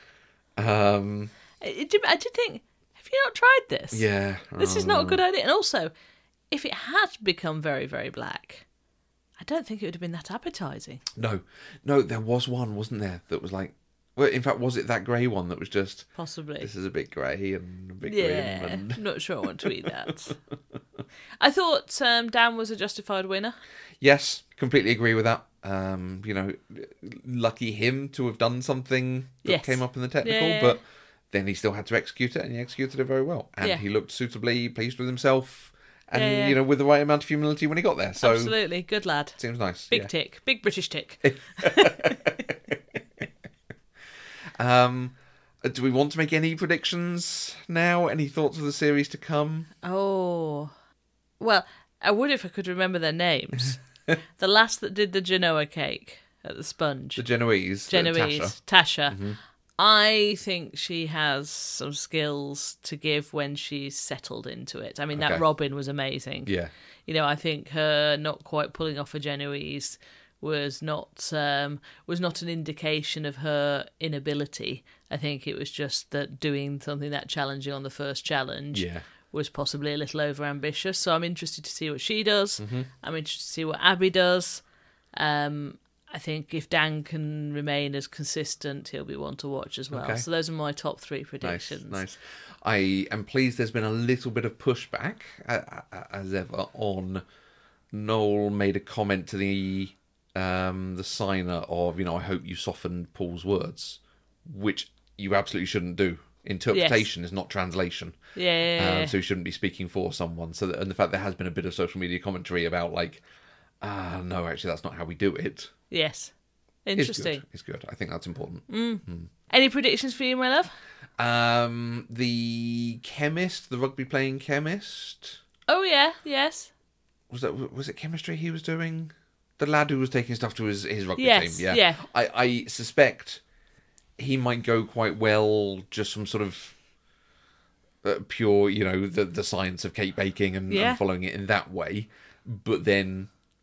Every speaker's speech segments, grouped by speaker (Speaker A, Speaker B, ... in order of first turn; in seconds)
Speaker A: 0.6-1.3, 3.9-5.2, 11.2-16.1, 16.6-19.9, 24.0-38.5, 39.4-40.1, 41.2-42.4, 44.6-49.7, 57.1-58.5, 59.1-59.4, 65.1-65.4, 66.5-66.7, 78.7-79.0, 82.6-82.9, 89.9-90.2, 91.4-97.2, 97.9-108.2, 108.8-113.2, 113.8-115.7, 117.0-119.3, 121.2-125.4, 127.3-133.4, 134.2-136.8, 138.0-143.3
Speaker B: 1.6-4.0, 4.6-5.9, 6.5-8.7, 9.4-11.0, 16.1-16.7, 18.0-20.3, 21.4-23.6, 29.4-30.8, 36.1-36.6, 38.2-39.4, 39.9-42.4, 49.8-50.7, 51.4-53.8, 54.4-57.2, 57.9-59.2, 59.8-66.5, 67.0-84.6, 85.2-92.0, 106.7-107.1, 108.3-109.1, 115.9-116.3, 116.8-117.4, 118.7-120.7, 125.7-126.7, 131.2-132.0, 140.7-141.0